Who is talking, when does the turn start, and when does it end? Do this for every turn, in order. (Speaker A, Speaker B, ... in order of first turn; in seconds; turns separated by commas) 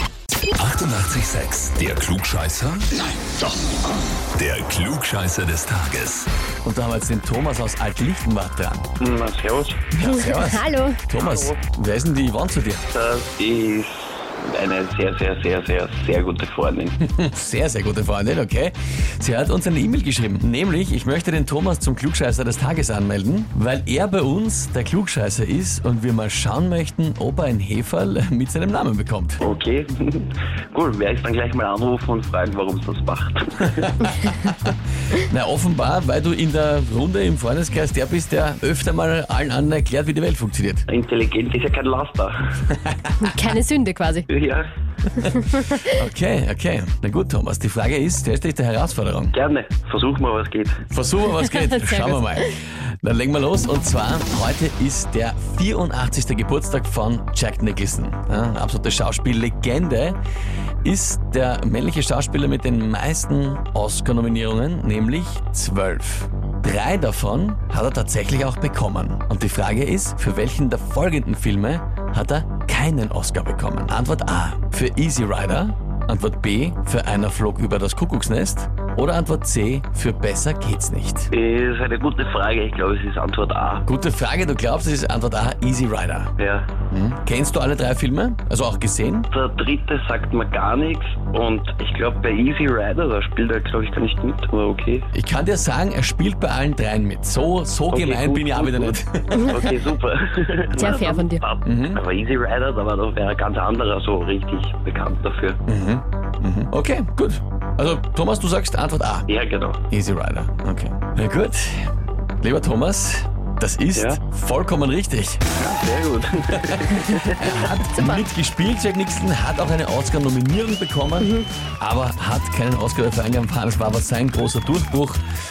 Speaker A: 0.6-3.0, Speaker A: 4.3-6.3, Speaker B: 6.6-8.9, Speaker C: 9.0-9.9, Speaker B: 9.9-12.9, Speaker D: 10.0-11.0, Speaker C: 11.2-11.6, Speaker C: 12.9-16.9, Speaker B: 17.0-29.4, Speaker C: 29.4-34.0, Speaker B: 34.1-40.9, Speaker C: 40.9-42.5, Speaker B: 42.7-43.1, Speaker D: 43.2-44.3, Speaker C: 44.3-44.7, Speaker B: 45.1-49.3, Speaker C: 49.3-50.8, Speaker B: 50.9-60.2, Speaker D: 51.6-52.3, Speaker B: 60.8-81.3, Speaker C: 81.3-83.8, Speaker B: 83.9-86.3, Speaker C: 86.4-86.7, Speaker B: 86.9-89.3, Speaker C: 89.3-95.1, Speaker B: 95.1-99.6, Speaker C: 97.9-105.6, Speaker D: 100.8-101.4, Speaker B: 101.6-102.0, Speaker B: 105.7-109.3, Speaker C: 109.3-109.8, Speaker B: 109.9-111.9, Speaker B: 112.4-115.5, Speaker C: 114.0-114.2, Speaker C: 115.5-117.6, Speaker B: 116.5-125.2, Speaker D: 121.2-121.5